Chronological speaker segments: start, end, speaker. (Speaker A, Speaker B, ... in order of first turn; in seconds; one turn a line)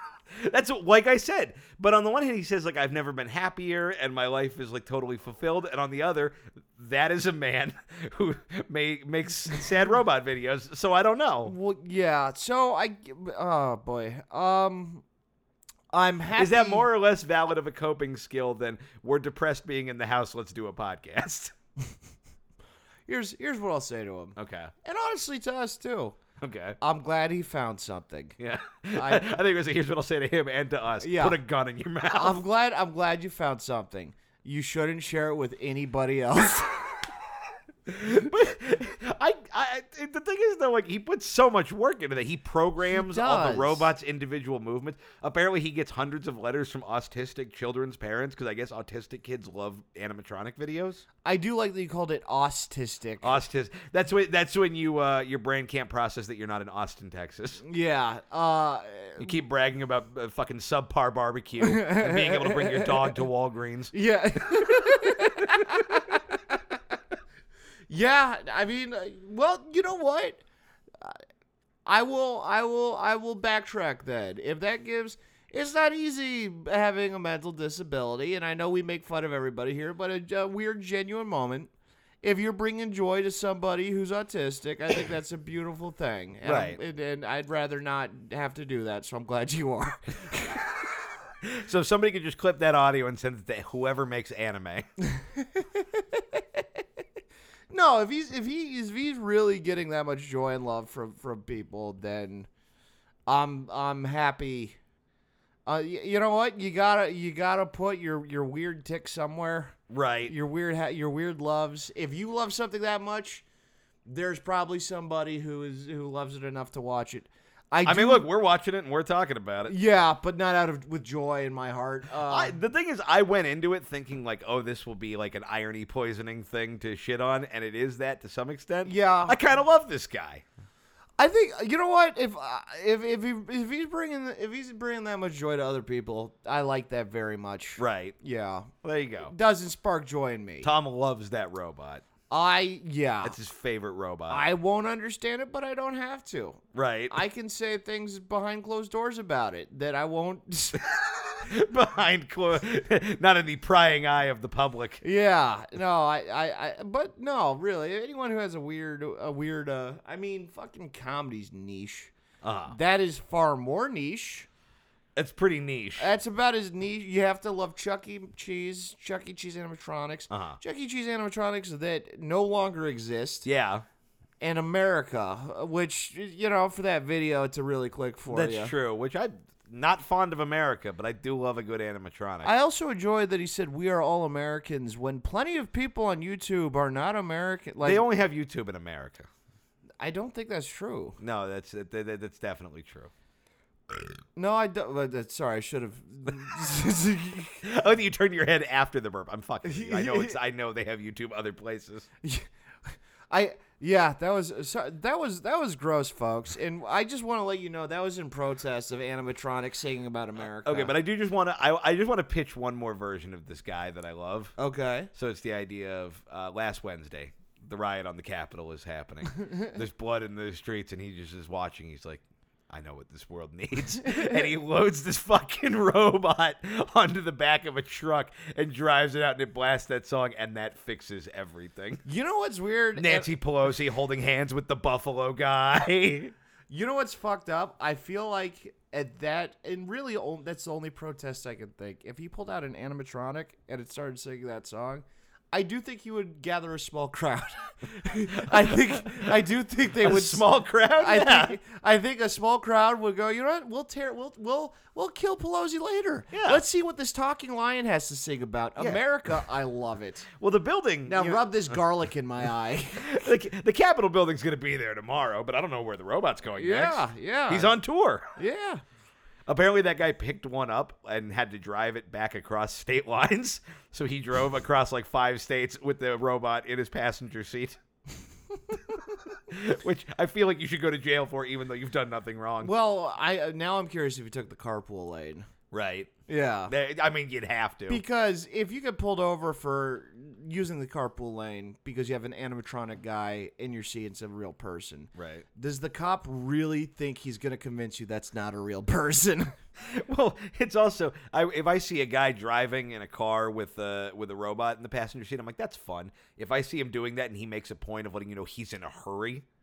Speaker A: 0.3-11.6
Speaker B: 11.4-15.0
Speaker B: 15.9-16.9
Speaker A: 16.4-21.5
Speaker B: 23.1-26.2
Speaker A: 24.4-24.7
Speaker A: 26.4-26.8
Speaker B: 26.8-28.4
Speaker A: 28.4-32.4
Speaker B: 28.9-29.3
Speaker B: 31.0-31.4
Speaker B: 32.1-37.0
Speaker A: 37.9-51.0
Speaker B: 42.8-43.9
Speaker B: 51.2-53.4
Speaker A: 53.2-57.6
Speaker B: 57.6-59.3
Speaker A: 59.2-65.9
Speaker B: 61.6-63.1
Speaker B: 63.9-66.7
Speaker B: 67.9-70.4
Speaker B: 71.9-81.7
Speaker B: 82.2-90.8
Speaker A: 86.4-86.8
Speaker A: 91.4-94.9
Speaker B: 95.0-96.8
Speaker B: 97.7-102.5
Speaker B: 103.3-104.8
Speaker B: 105.7-109.8
Speaker A: 109.9-110.3
Speaker B: 110.3-113.5
Speaker B: 114.1-118.2
Speaker A: 117.8-119.8
Speaker B: 119.7-122.6
Speaker A: 122.2-130.4
Speaker B: 128.8-129.4
Speaker B: 131.2-138.7
Speaker A: 137.8-138.2
Speaker A: 138.8-139.3
Speaker B: 139.3-140.7
Speaker A: 140.6-142.1
Speaker B: 142.3-143.4
Speaker A: 143.2-144.5
Speaker B: 144.3-150.8
Speaker A: 146.7-147.2
Speaker A: 150.8-155.0
Speaker B: 155.0-162.1
Speaker A: 162.4-162.8
Speaker B: 162.7-164.5
Speaker A: 165.2-166.1
Speaker B: 166.0-173.5
Speaker A: 170.3-170.6
Speaker A: 173.4-173.8
Speaker B: 174.4-178.7
Speaker A: 178.3-182.5
Speaker B: 182.4-188.0
Speaker A: 187.8-189.3
Speaker B: 190.0-191.2
Speaker A: 191.2-193.1
Speaker B: 194.4-197.6
Speaker A: 197.6-202.1
Speaker B: 199.6-200.4
Speaker B: 202.2-210.9
Speaker A: 210.4-214.6
Speaker B: 214.6-215.1
Speaker A: 215.1-232.0
Speaker B: 224.1-224.4
Speaker B: 232.1-233.3
Speaker A: 233.0-236.3
Speaker B: 236.7-250.5
Speaker A: 248.3-249.3
Speaker A: 250.0-251.6
Speaker B: 251.0-260.3
Speaker A: 256.3-256.6
Speaker A: 258.8-259.0
Speaker A: 260.4-261.8
Speaker B: 261.1-263.2
Speaker A: 263.0-268.3
Speaker B: 266.6-267.8
Speaker B: 268.4-268.8
Speaker A: 269.5-277.8
Speaker B: 278.6-278.9
Speaker A: 279.4-282.7
Speaker B: 282.6-285.5
Speaker A: 285.7-286.1
Speaker B: 286.3-286.7
Speaker A: 286.7-288.0
Speaker B: 287.9-299.6
Speaker A: 295.2-295.4
Speaker A: 299.8-309.4